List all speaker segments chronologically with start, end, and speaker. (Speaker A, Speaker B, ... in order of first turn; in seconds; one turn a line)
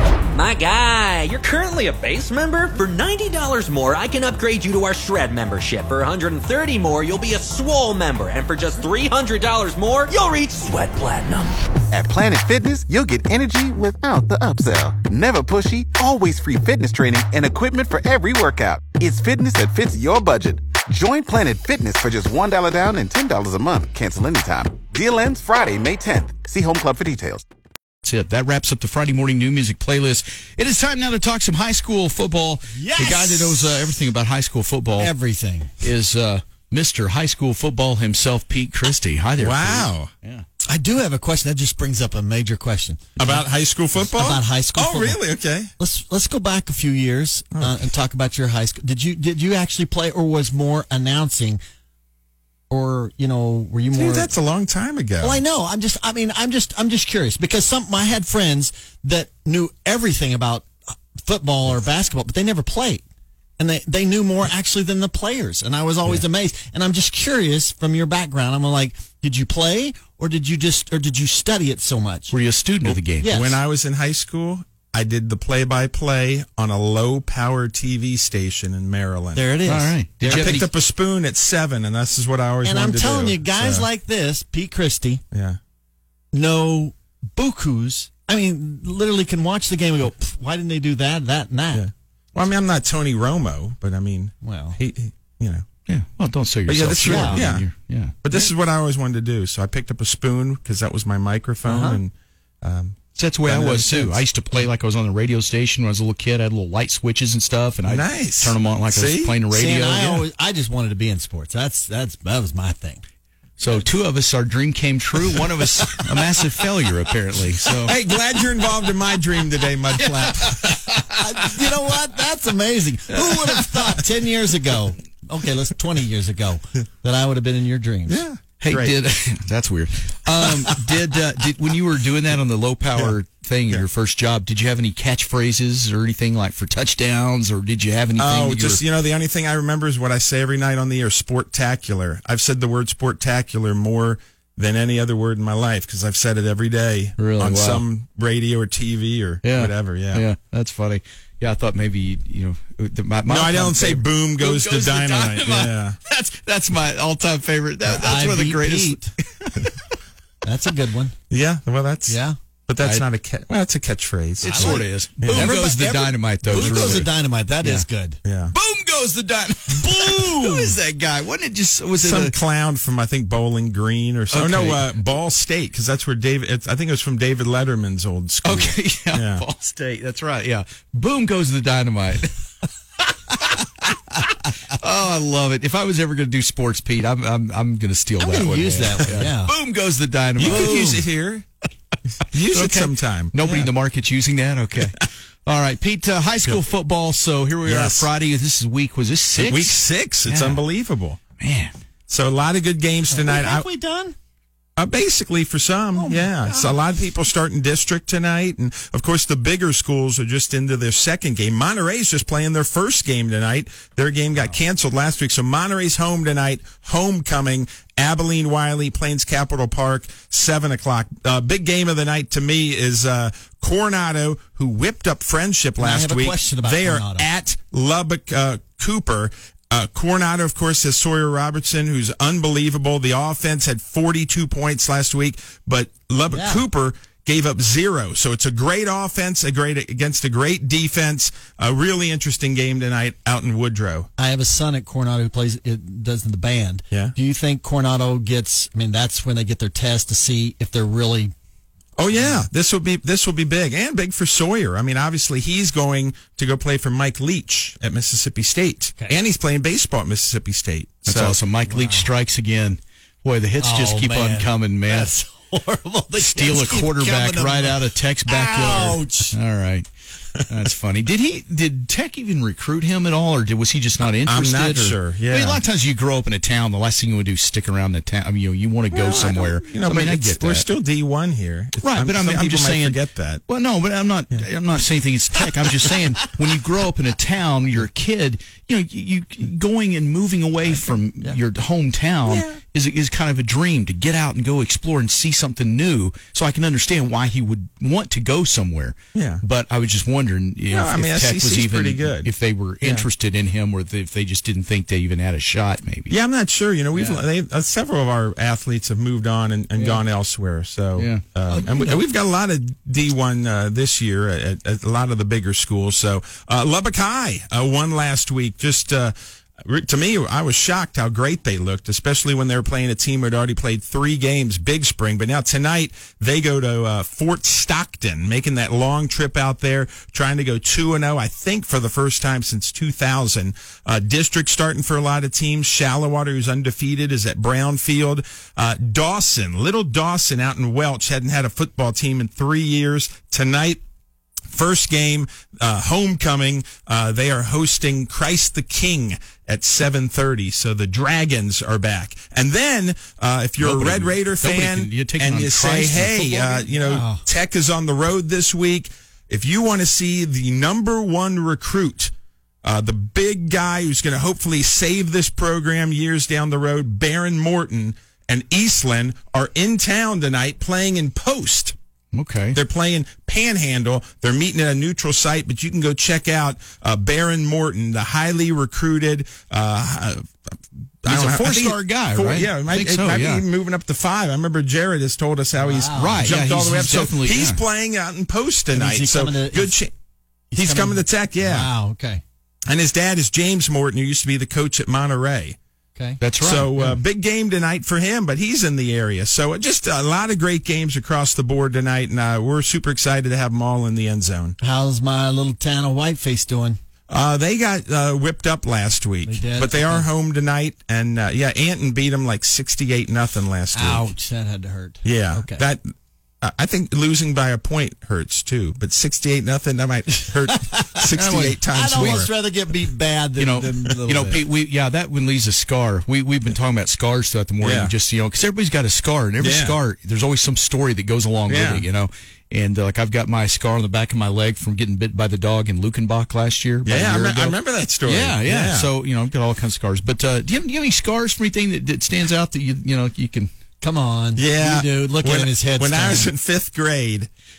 Speaker A: 0.3-11.5
Speaker B: 11.9-27.5
Speaker C: 28.0-35.1
Speaker D: 32.7-33.9
Speaker D: 35.0-35.7
Speaker C: 35.8-40.5
Speaker E: 39.4-40.1
Speaker D: 40.7-43.4
Speaker E: 43.2-45.7
Speaker D: 44.0-45.2
Speaker D: 45.8-51.6
Speaker D: 52.7-54.3
Speaker E: 53.9-55.4
Speaker D: 55.2-63.0
Speaker D: 63.6-72.3
Speaker C: 72.3-73.3
Speaker E: 72.8-79.4
Speaker D: 73.2-73.6
Speaker D: 79.3-80.6
Speaker C: 79.7-80.7
Speaker E: 80.2-83.9
Speaker D: 82.6-85.2
Speaker E: 85.3-85.6
Speaker D: 86.3-91.8
Speaker E: 91.7-95.7
Speaker D: 94.4-94.8
Speaker C: 95.9-98.2
Speaker E: 96.7-97.7
Speaker D: 97.1-97.5
Speaker E: 98.2-104.2
Speaker D: 101.6-102.0
Speaker C: 103.1-110.3
Speaker E: 107.8-109.4
Speaker D: 109.5-113.0
Speaker C: 113.6-117.9
Speaker E: 117.8-120.8
Speaker C: 120.0-121.2
Speaker D: 121.1-128.2
Speaker C: 123.1-124.1
Speaker E: 128.1-128.9
Speaker C: 128.6-138.8
Speaker E: 138.2-150.2
Speaker C: 147.2-147.8
Speaker C: 149.4-159.8
Speaker E: 153.3-156.0
Speaker D: 157.8-159.1
Speaker D: 160.4-161.1
Speaker E: 161.3-165.5
Speaker D: 162.1-162.3
Speaker C: 164.4-167.9
Speaker D: 164.4-168.2
Speaker E: 166.4-167.0
Speaker E: 168.2-168.5
Speaker C: 168.5-172.3
Speaker D: 170.2-170.7
Speaker E: 172.0-179.4
Speaker C: 174.3-174.9
Speaker C: 178.4-182.4
Speaker C: 183.3-191.0
Speaker D: 188.2-189.5
Speaker E: 190.4-191.4
Speaker D: 190.4-191.0
Speaker E: 192.3-193.4
Speaker C: 192.5-200.6
Speaker E: 197.6-198.1
Speaker E: 199.4-201.2
Speaker C: 201.4-201.7
Speaker E: 202.1-203.7
Speaker D: 203.1-204.1
Speaker E: 204.8-244.1
Speaker D: 205.9-206.8
Speaker D: 225.8-227.3
Speaker D: 236.3-236.6
Speaker D: 244.2-251.3
Speaker E: 252.0-261.4
Speaker D: 252.1-252.4
Speaker C: 261.1-265.1
Speaker D: 261.6-262.1
Speaker D: 263.6-269.4
Speaker C: 266.1-269.9
Speaker C: 270.5-280.7
Speaker E: 274.2-275.6
Speaker E: 278.9-283.4
Speaker C: 281.8-306.1
Speaker E: 292.2-292.6
Speaker E: 299.1-299.4
Speaker E: 300.7-302.3
Speaker E: 302.8-303.1
Speaker E: 306.1-343.8
Speaker C: 306.9-307.2
Speaker C: 309.8-310.0
Speaker C: 310.9-311.2
Speaker D: 311.5-312.0
Speaker E: 344.5-362.1
Speaker C: 353.6-357.0
Speaker D: 356.9-357.2
Speaker E: 362.6-371.8
Speaker C: 372.1-372.6
Speaker E: 372.5-380.2
Speaker E: 381.0-389.9
Speaker C: 381.1-383.4
Speaker D: 385.6-386.3
Speaker C: 385.9-387.6
Speaker D: 388.7-389.8
Speaker D: 390.5-392.2
Speaker E: 390.6-391.7
Speaker E: 392.7-395.6
Speaker C: 396.2-397.0
Speaker E: 396.4-404.6
Speaker D: 404.6-406.8
Speaker E: 407.1-414.1
Speaker D: 409.2-410.1
Speaker D: 413.7-415.6
Speaker E: 415.0-415.8
Speaker E: 416.4-422.3
Speaker D: 420.6-421.0
Speaker C: 421.1-422.3
Speaker D: 421.7-424.4
Speaker C: 423.4-443.5
Speaker E: 427.6-427.9
Speaker E: 429.4-429.8
Speaker E: 431.5-431.9
Speaker E: 436.8-438.9
Speaker D: 443.8-446.3
Speaker E: 444.4-447.3